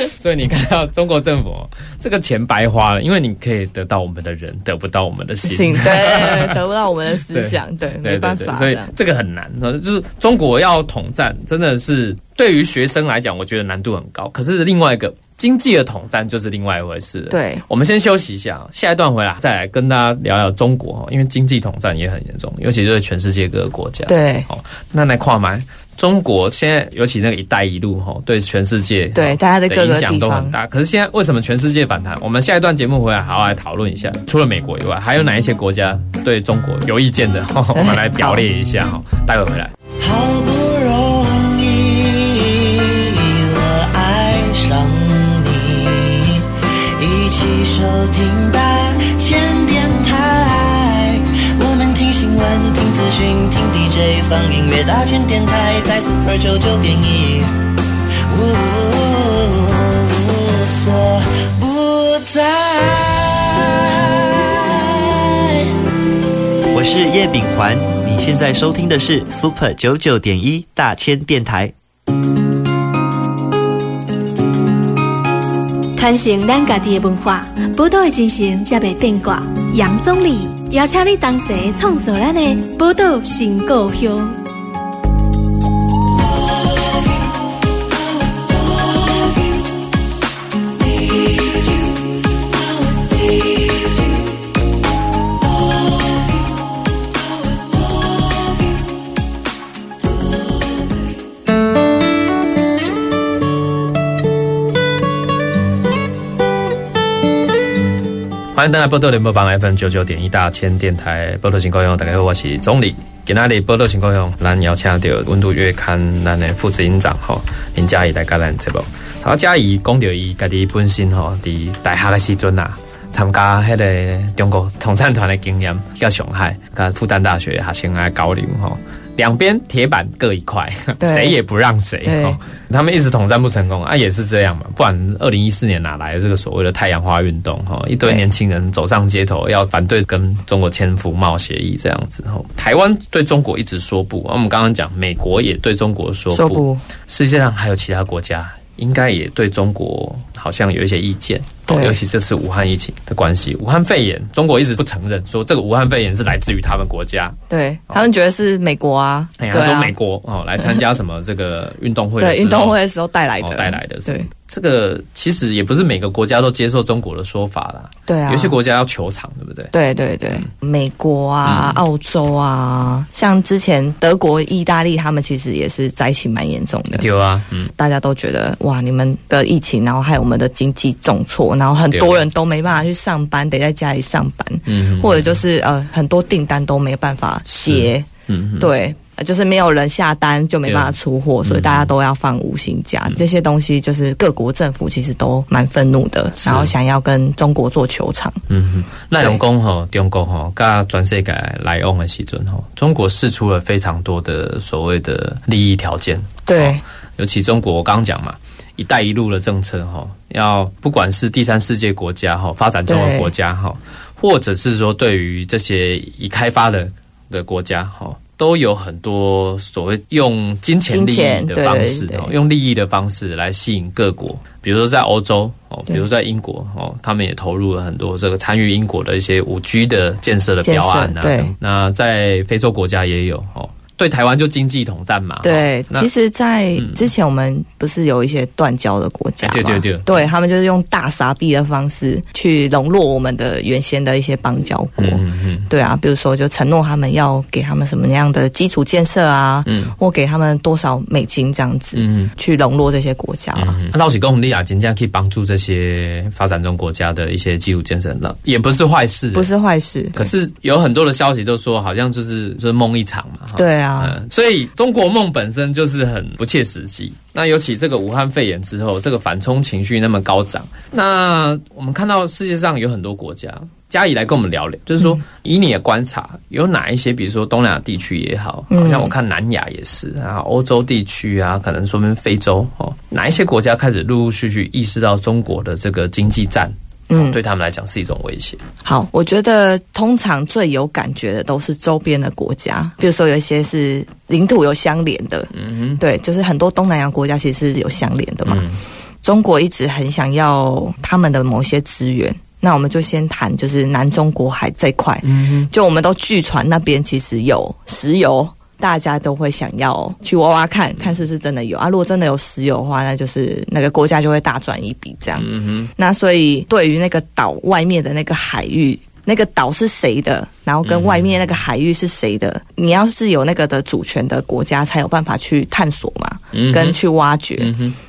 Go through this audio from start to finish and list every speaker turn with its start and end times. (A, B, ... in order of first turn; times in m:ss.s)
0:00.2-0:06.6 A
0:05.4-0:08.9 B
0:07.3-0:39.7 A
0:17.3-0:17.6 B
0:24.1-0:24.5 B
0:29.1-0:30.5 B
0:37.7-0:38.4 B
0:40.0-0:57.5 C
0:58.3-1:05.7 C
1:06.7-1:11.7 D
1:16.0-1:24.4 E
1:48.5-2:37.4 A
2:11.0-2:11.4 B
2:12.0-2:12.4 B
2:26.3-2:26.8 B
2:31.7-2:32.0 B
2:37.5-2:39.9 B
2:39.4-2:42.8 A
2:42.2-2:44.3 B
2:43.4-2:49.7 A
2:48.1-2:48.6 B
2:49.7-2:57.0 B
2:51.4-2:51.8 A
2:56.9-2:57.7 A
2:57.8-3:08.1 B
3:01.9-3:02.2 A
3:04.7-3:05.4 A
3:07.5-3:08.7 A
3:08.6-3:18.4 B
3:10.6-3:11.9 A
3:16.4-3:16.7 A
3:18.5-3:56.1 A
3:26.4-3:26.8 B
3:32.9-3:33.3 B
3:40.9-3:42.3 B
3:50.6-3:51.5 B
3:55.4-4:13.8 B
3:56.8-3:57.1 A
3:59.4-4:00.2 A
4:05.0-4:05.7 A
4:09.6-4:09.9 A
4:12.0-4:12.3 A
4:13.6-4:19.5 A
4:19.3-4:20.3 B
4:20.2-4:48.6 A
4:23.5-4:24.1 B
4:38.7-4:39.1 B
4:47.1-4:47.4 B
4:48.8-4:58.6 B
4:55.5-4:56.0 A
4:58.4-4:58.8 A
4:59.2-5:27.7 B
5:05.2-5:05.7 A
5:15.4-5:15.9 A
5:20.8-5:21.5 A
5:26.5-5:27.0 A
5:27.6-5:28.0 A